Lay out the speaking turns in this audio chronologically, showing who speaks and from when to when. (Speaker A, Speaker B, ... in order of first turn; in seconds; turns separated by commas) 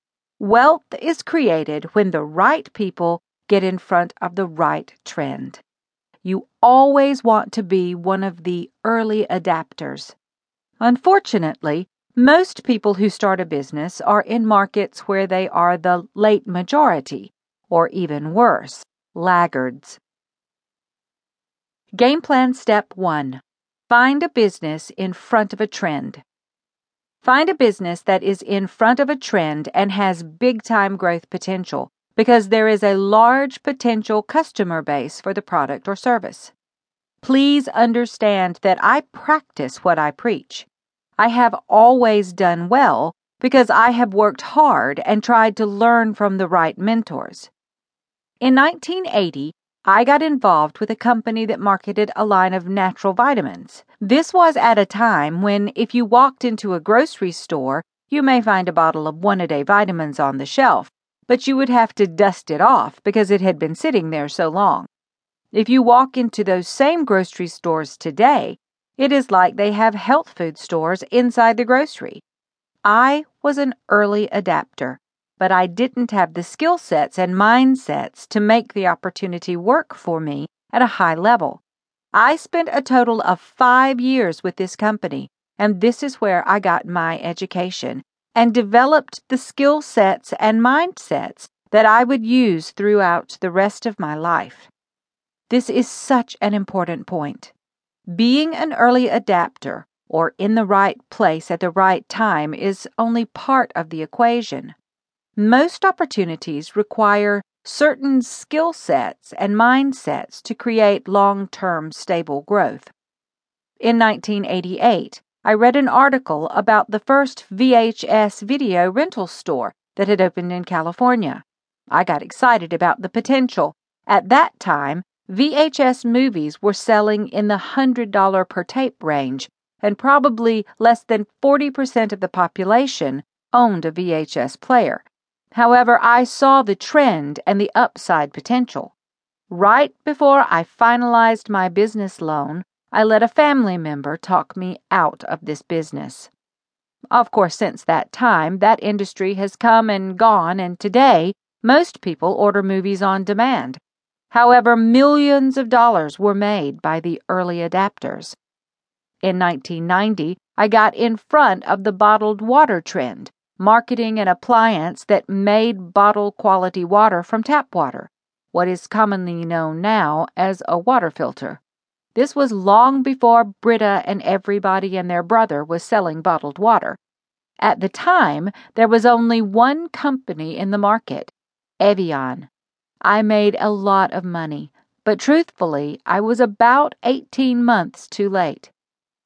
Speaker A: 0.4-5.6, Speaker A: 6.2-10.2, Speaker A: 10.8-20.0, Speaker A: 21.9-26.2, Speaker A: 27.2-36.5, Speaker A: 37.2-40.7, Speaker A: 41.2-47.5, Speaker A: 48.4-64.9, Speaker A: 65.5-72.2, Speaker A: 72.8-81.6, Speaker A: 82.1-94.7, Speaker A: 95.5-97.5, Speaker A: 98.1-104.8, Speaker A: 105.4-112.9, Speaker A: 113.8-138.9, Speaker A: 139.5-146.3, Speaker A: 147.1-153.8, Speaker A: 154.3-158.4, Speaker A: 159.2-171.6, Speaker A: 172.2-177.0, Speaker A: 177.6-182.5, Speaker A: 183.0-188.7